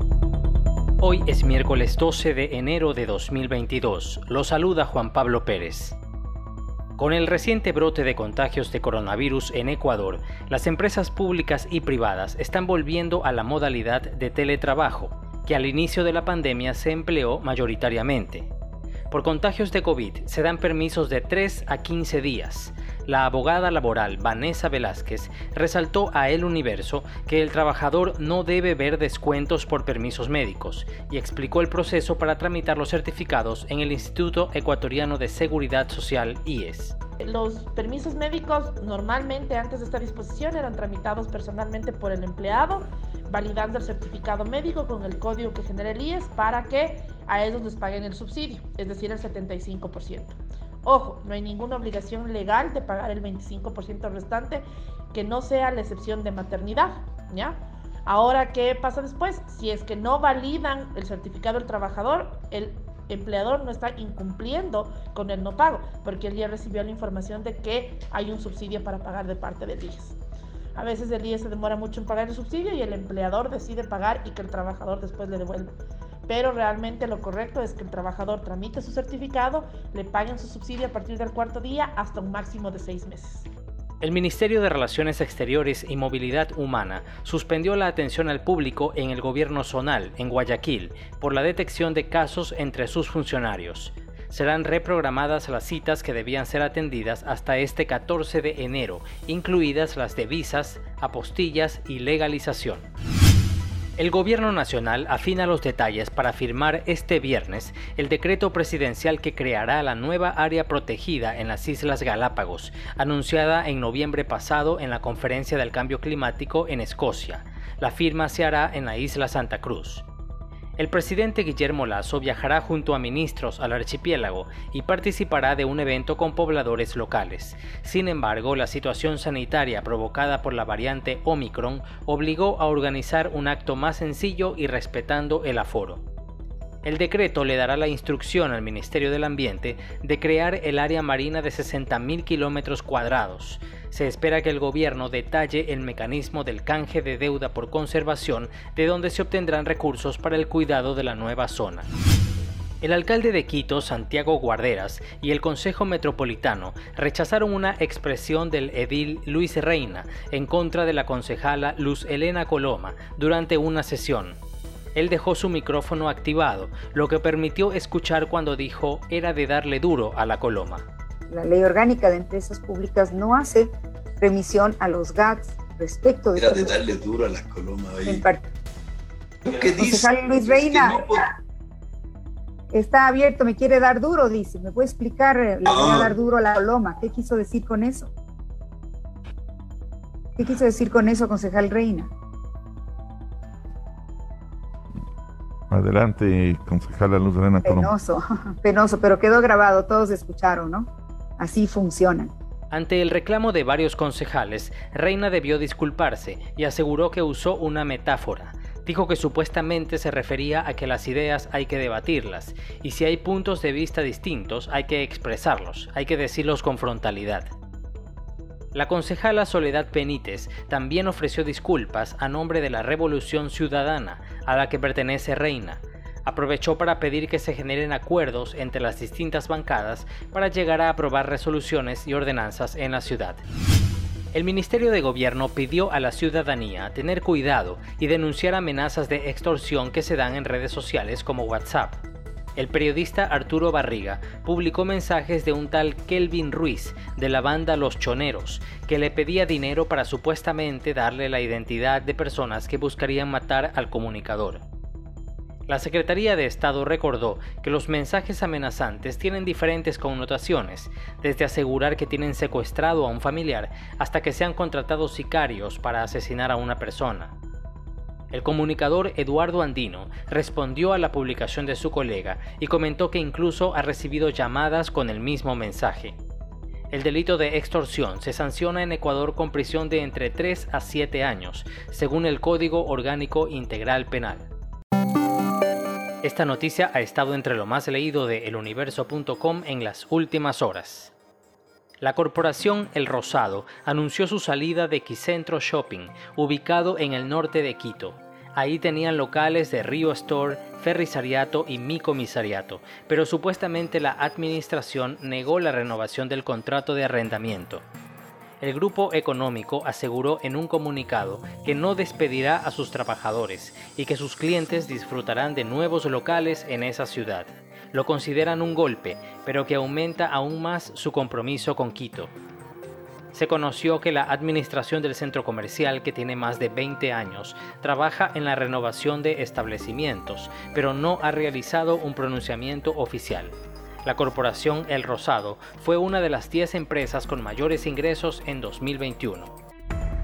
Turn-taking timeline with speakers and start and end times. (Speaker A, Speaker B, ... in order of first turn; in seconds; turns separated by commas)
Speaker A: 1.0-6.0, Speaker A: 7.0-18.5, Speaker A: 19.1-37.0, Speaker B: 37.2-70.2, Speaker B: 70.8-75.7, Speaker B: 76.3-83.5, Speaker A: 84.0-102.9, Speaker A: 104.0-120.1, Speaker A: 120.8-136.0, Speaker A: 136.8-151.9, Speaker A: 152.8-164.4, Speaker A: 164.9-170.8, Speaker C: 171.3-176.8, Speaker D: 176.4-178.2, Speaker C: 178.1-178.5, Speaker D: 179.4-181.3, Speaker C: 179.5-181.1, Speaker C: 182.7-188.1, Speaker D: 185.7-186.2, Speaker C: 190.4-192.1, Speaker E: 195.7-197.9, Speaker C: 197.6-202.3, Speaker A: 202.7-217.5, Speaker A: 218.7-233.4, Speaker A: 234.3-242.0, Speaker A: 242.6-254.6, Speaker A: 255.7-267.3, Speaker A: 268.3-276.2, Speaker A: 276.9-284.5, Speaker A: 286.2-291.1, Speaker A: 292.0-307.8, Speaker A: 308.6-322.3, Speaker A: 323.3-339.5